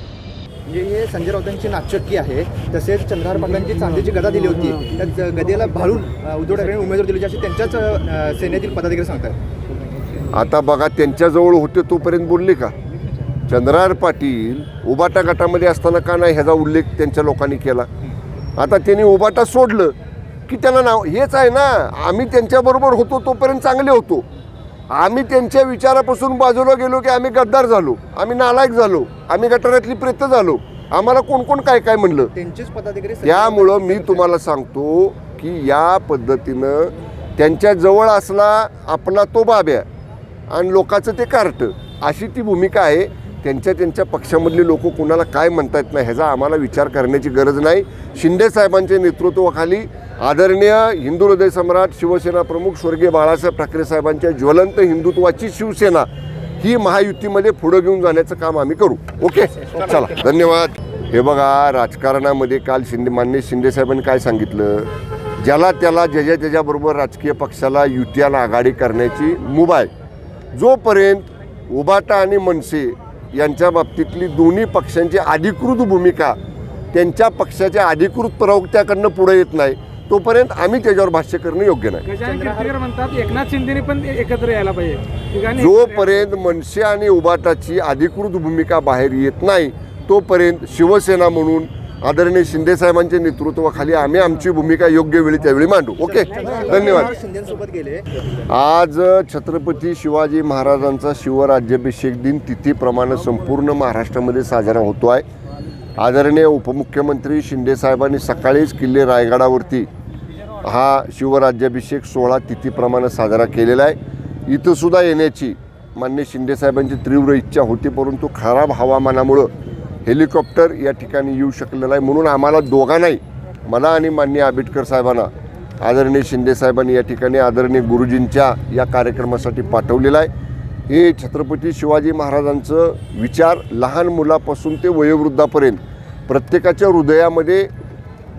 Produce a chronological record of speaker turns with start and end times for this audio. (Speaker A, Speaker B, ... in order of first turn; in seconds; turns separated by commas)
Speaker A: 0.7-9.4, Speaker B: 10.3-12.7, Speaker B: 13.5-17.9, Speaker B: 18.6-19.9, Speaker B: 20.5-24.2, Speaker B: 24.9-32.3, Speaker A: 32.4-34.2, Speaker B: 33.2-39.9, Speaker B: 40.5-56.1, Speaker B: 56.6-69.9, Speaker B: 70.5-76.4, Speaker B: 76.9-82.0, Speaker C: 82.1-86.1, Speaker A: 82.2-82.7, Speaker B: 85.6-97.1, Speaker A: 96.0-98.0, Speaker B: 98.5-105.2, Speaker B: 106.0-109.9, Speaker B: 110.6-119.5, Speaker B: 120.0-130.3, Speaker B: 130.9-137.7